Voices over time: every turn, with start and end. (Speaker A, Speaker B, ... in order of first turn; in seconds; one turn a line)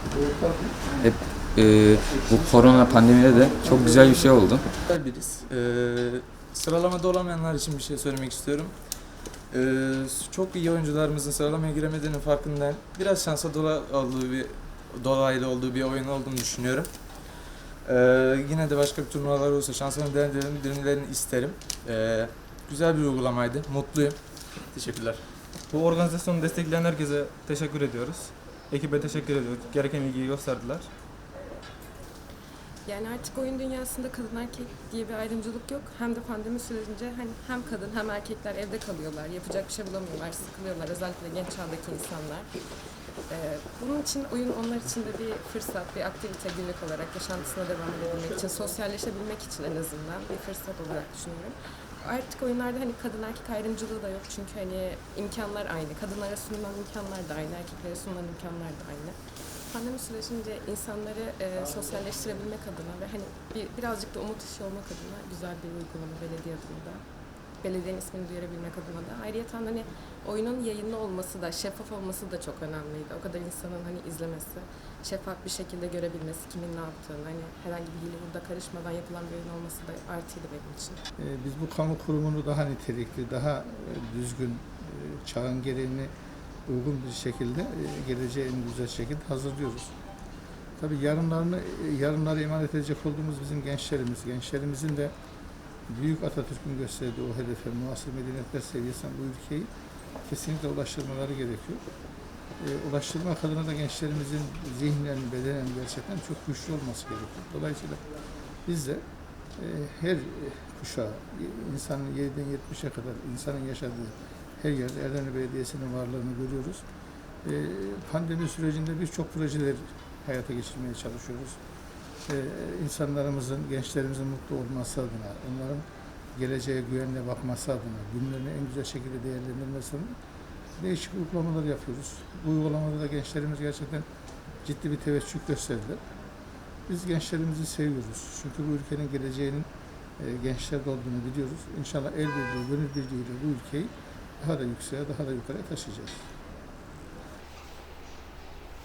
Speaker A: 0.1-0.8
Speaker B: 1.0-4.6
Speaker A: 3.6-4.3
Speaker C: 4.8-8.8
Speaker C: 9.5-25.3
Speaker D: 25.7-30.9
Speaker E: 32.8-42.5
Speaker E: 43.3-67.0
Speaker E: 67.6-81.0
Speaker A: 81.2-86.1
Speaker A: 86.7-89.9
Speaker A: 90.8-95.1
Speaker A: 95.9-99.7
Speaker A: 100.2-101.8
Speaker A: 102.6-108.0
Speaker A: 108.7-109.0
Speaker A: 109.6-116.8
Speaker A: 117.4-121.6
Speaker A: 122.2-130.1
Speaker A: 130.8-134.1
Speaker A: 134.6-136.0
Speaker A: 136.9-146.3